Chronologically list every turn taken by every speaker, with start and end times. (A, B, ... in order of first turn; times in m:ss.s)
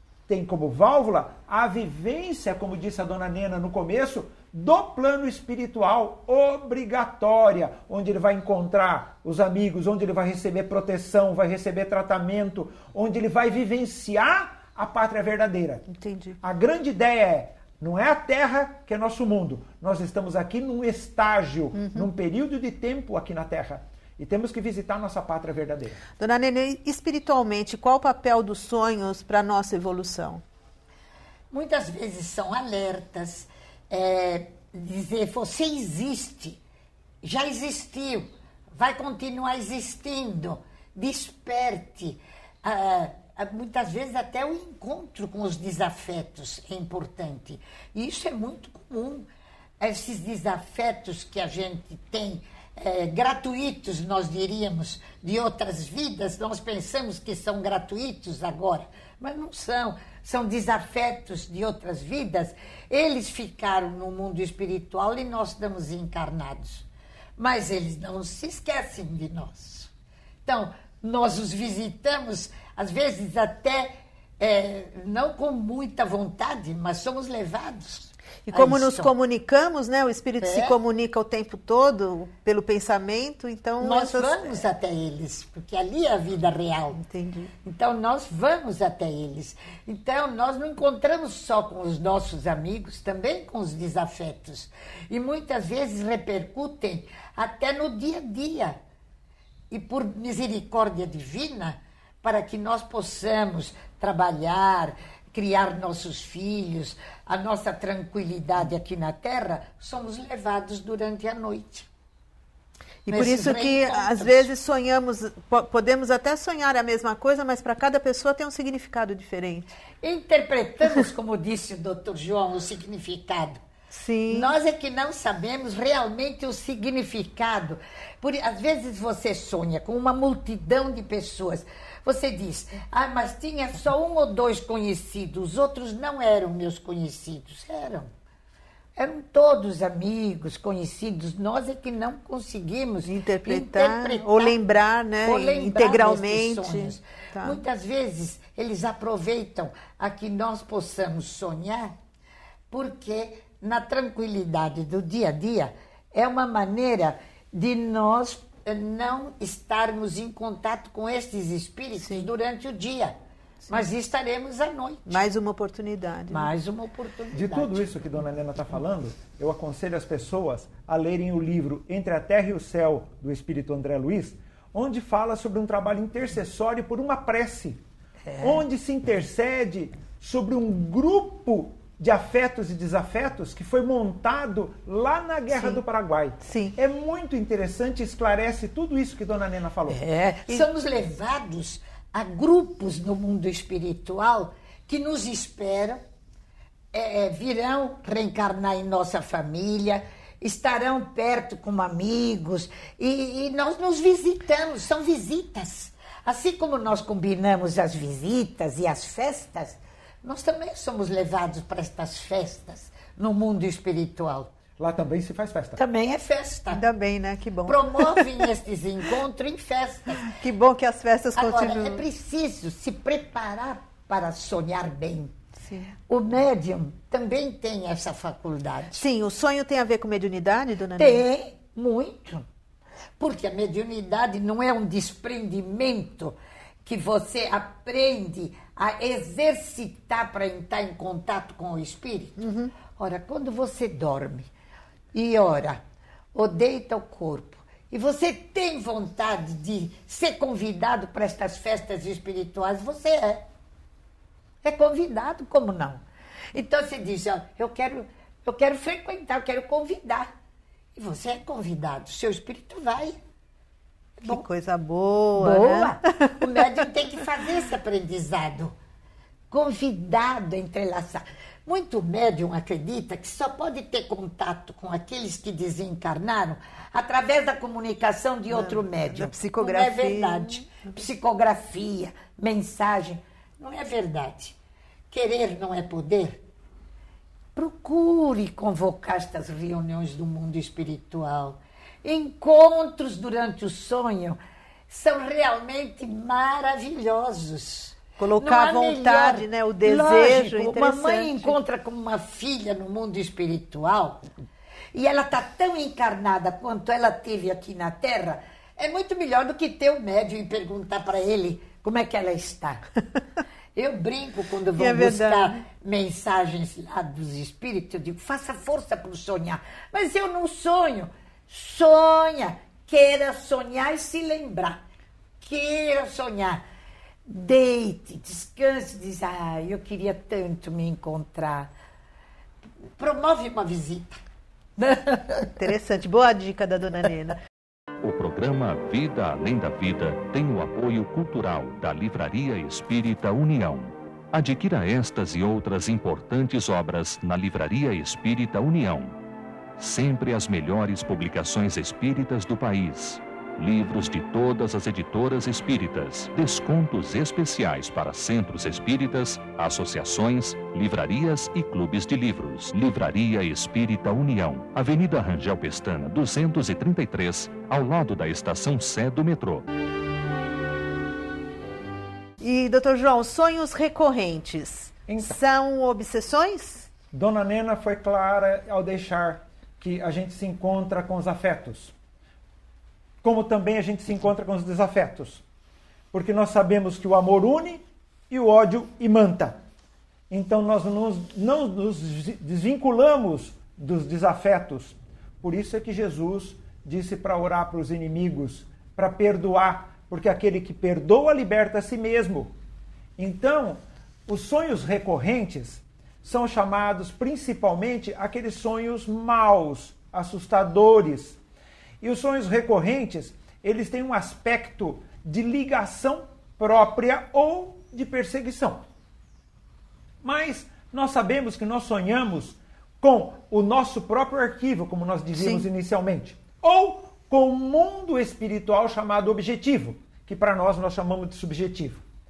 0:00.3-0:15.9 A
0:15.9-0:16.4 B
0:16.4-0:26.0 A
0:21.8-0:22.1 B
0:26.2-0:30.4 B
0:31.5-0:36.6 C
0:37.2-0:49.3 C
0:49.8-1:09.9 C
1:10.5-1:19.1 C
1:18.4-1:24.6 B
1:20.4-1:20.8 C
1:23.8-1:27.0 C
1:27.0-1:27.5 B
1:27.6-1:38.8 C
1:39.7-1:51.9 C
1:53.1-1:59.7 B
1:53.1-1:54.5 C
2:00.0-2:03.6 C
2:03.9-2:04.5 B
2:04.3-2:18.1 C
2:19.0-2:24.6 C
2:23.0-2:27.6 B
2:25.2-2:32.0 C
2:32.7-2:43.2 C
2:42.0-2:42.3 B
2:43.7-2:45.2 C
2:45.1-2:46.5 B
2:46.3-2:47.9 C
2:47.3-2:57.8 A
2:58.3-2:58.6 C
2:58.4-3:10.0 A
3:05.5-3:05.8 B
3:06.4-3:06.8 B
3:09.9-3:16.0 C
3:16.9-3:34.5 C
3:34.8-3:35.8 A
3:35.8-3:36.8 C
3:36.7-3:38.5 B
3:37.7-3:40.4 C
3:40.2-3:42.0 B
3:41.4-3:45.4 C
3:45.6-3:45.9 B
3:46.1-3:49.0 C
3:49.0-3:51.2 B
3:51.0-3:52.5 C
3:53.2-4:02.4 C
4:02.4-4:02.7 B
4:03.0-4:04.5 C
4:05.1-4:05.8 C
4:06.4-4:13.4 C
4:14.6-4:16.0 C
4:16.5-4:20.3 C
4:21.0-4:23.2 C
4:24.2-4:24.4 C
4:24.2-4:26.9 B
4:25.4-4:28.8 C
4:29.5-4:44.6 C
4:38.5-4:40.7 B
4:45.1-4:46.4 C
4:47.6-5:04.3 C
4:58.2-5:01.6 B
5:04.9-5:12.8 C
5:13.8-5:24.8 C
5:14.8-5:15.6 B
5:25.4-5:26.6 C
5:27.3-5:31.7 C
5:33.0-5:34.2 C
5:34.8-5:35.5 C
5:35.5-5:37.4 B
5:38.0-5:49.2 D
5:49.8-6:09.6 D
6:12.4-6:16.9 B
6:15.1-6:15.4 A
6:17.1-6:21.9 A
6:23.2-6:25.4 A
6:26.1-6:29.6 A
6:30.3-6:42.6 A
6:43.2-6:51.4 A
6:52.0-6:58.8 A
7:00.2-7:12.0 A
7:05.4-7:05.7 B